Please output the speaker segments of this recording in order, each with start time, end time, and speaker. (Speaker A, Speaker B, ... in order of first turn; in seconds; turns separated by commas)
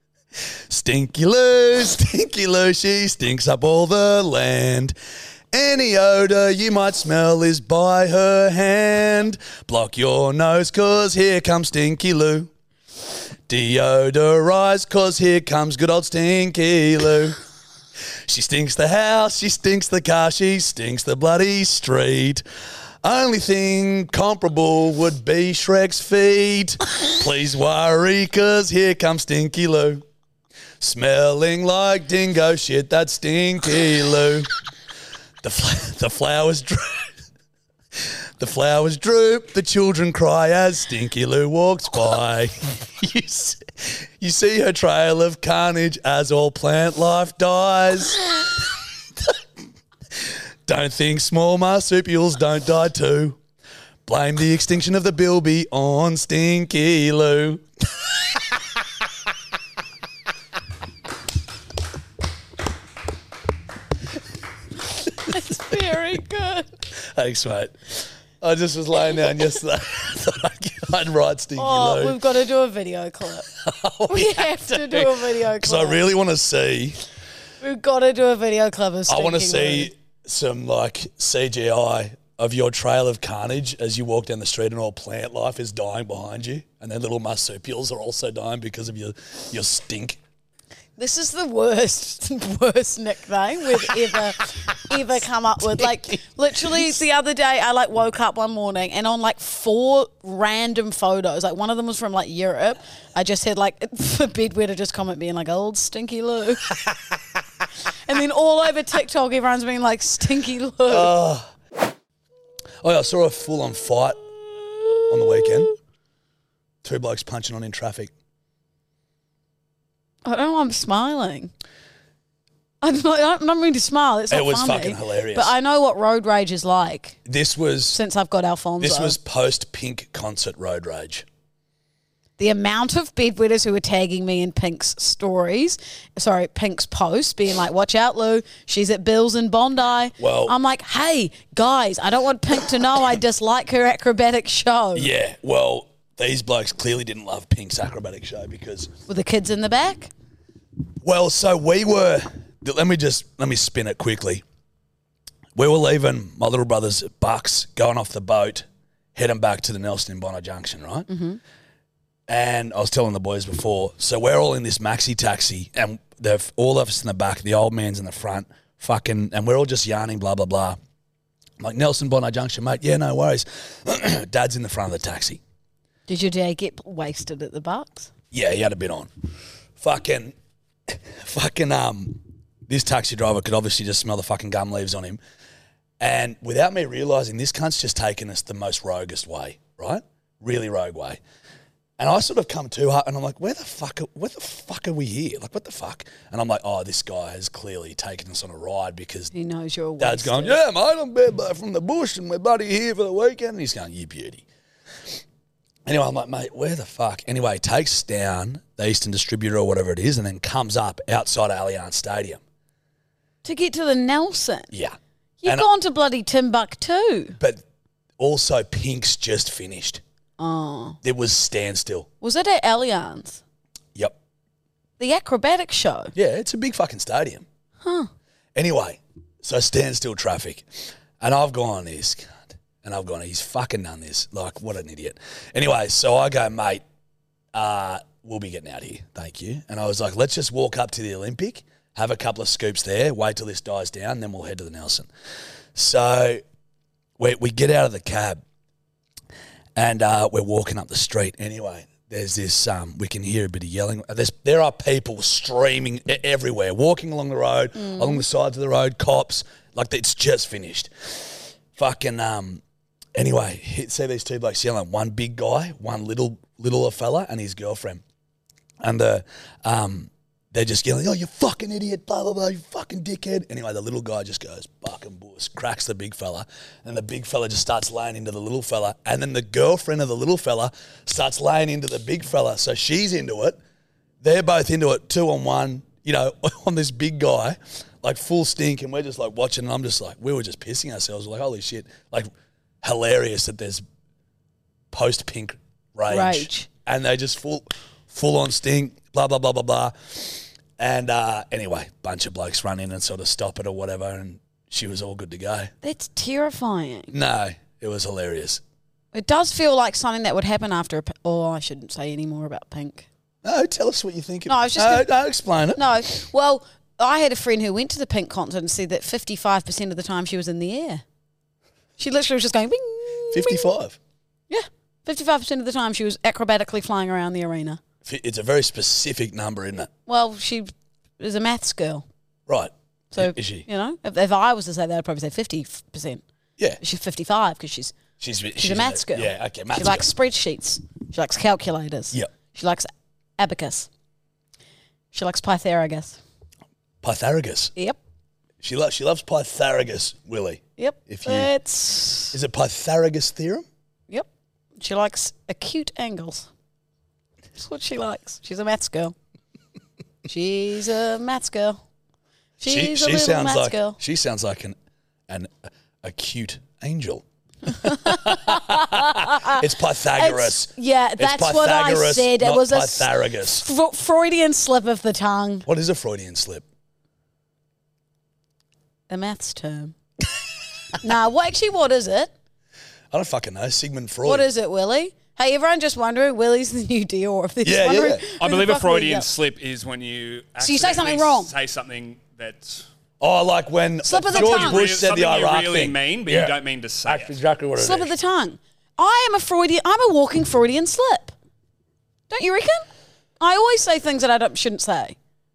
Speaker A: 0.7-5.0, Speaker A: 5.5-12.5, Speaker A: 13.5-17.4, Speaker A: 18.3-22.4, Speaker A: 23.0-30.0, Speaker A: 30.8-34.5, Speaker A: 35.4-37.2, Speaker A: 38.0-48.5, Speaker A: 50.2-53.4, Speaker A: 54.1-57.6, Speaker B: 65.3-66.7, Speaker A: 67.0-72.2, Speaker B: 71.6-73.5, Speaker A: 73.5-77.0, Speaker B: 74.1-76.0, Speaker B: 77.6-79.9, Speaker A: 79.1-90.2, Speaker B: 91.0-106.7, Speaker A: 95.7-97.0, Speaker B: 108.1-111.1, Speaker A: 110.9-111.5, Speaker A: 112.8-114.2, Speaker A: 115.1-115.7, Speaker A: 116.8-118.1, Speaker B: 120.2-121.5, Speaker B: 122.8-127.2, Speaker A: 124.3-125.5, Speaker A: 127.3-128.0, Speaker B: 127.9-129.2, Speaker A: 128.8-131.3, Speaker B: 132.4-145.1, Speaker A: 140.2-140.5, Speaker A: 144.9-148.9, Speaker B: 149.1-150.1, Speaker A: 151.0-154.4, Speaker A: 155.6-161.1, Speaker B: 161.1-161.4, Speaker A: 162.3-170.8, Speaker A: 171.6-175.4, Speaker B: 176.1-178.1, Speaker A: 178.3-179.1, Speaker A: 179.8-180.3, Speaker A: 180.9-185.2, Speaker A: 186.0-191.2, Speaker A: 192.0-199.3, Speaker B: 199.3-200.6, Speaker A: 200.0-204.4, Speaker A: 205.9-212.4, Speaker B: 213.4-214.7, Speaker A: 214.7-215.7, Speaker B: 215.4-217.4, Speaker A: 218.2-220.0, Speaker B: 220.4-221.0, Speaker A: 221.0-222.1, Speaker B: 222.2-223.4, Speaker B: 225.0-226.1, Speaker A: 226.2-227.5, Speaker B: 227.8-228.1, Speaker A: 228.6-236.8, Speaker A: 237.5-245.1, Speaker A: 245.8-246.4, Speaker A: 247.2-248.4, Speaker A: 249.8-262.6, Speaker B: 257.8-258.2, Speaker A: 263.1-268.0, Speaker A: 268.8-283.6, Speaker A: 284.2-292.3, Speaker A: 292.8-293.8, Speaker A: 294.9-305.7, Speaker B: 296.1-296.7, Speaker B: 305.8-307.1, Speaker A: 307.1-308.6, Speaker B: 309.1-313.1, Speaker A: 313.4-315.8, Speaker B: 314.5-315.1, Speaker B: 315.8-321.0, Speaker B: 322.0-323.7, Speaker A: 323.3-324.0, Speaker B: 324.5-327.8, Speaker A: 328.0-329.9, Speaker B: 330.1-332.1, Speaker A: 332.5-333.7, Speaker B: 333.1-336.2, Speaker B: 336.8-337.9, Speaker A: 338.2-340.1, Speaker B: 338.6-343.9, Speaker B: 345.1-346.2, Speaker A: 347.0-347.7, Speaker A: 348.6-351.5, Speaker B: 350.8-352.4, Speaker A: 352.3-353.7, Speaker B: 354.8-356.5, Speaker B: 357.6-359.1, Speaker B: 360.3-361.8, Speaker B: 362.6-364.0, Speaker A: 362.6-364.8, Speaker A: 365.3-373.7, Speaker B: 367.8-369.6, Speaker B: 370.2-375.7, Speaker A: 375.7-376.6, Speaker B: 379.1-379.9, Speaker B: 381.0-382.3, Speaker A: 383.1-384.5, Speaker B: 384.2-389.3, Speaker A: 387.6-388.2, Speaker C: 388.3-392.8, Speaker B: 390.6-391.5, Speaker A: 393.2-398.1, Speaker B: 394.1-394.9, Speaker C: 394.3-397.4, Speaker B: 397.8-401.3, Speaker B: 402.3-402.9, Speaker B: 403.4-405.2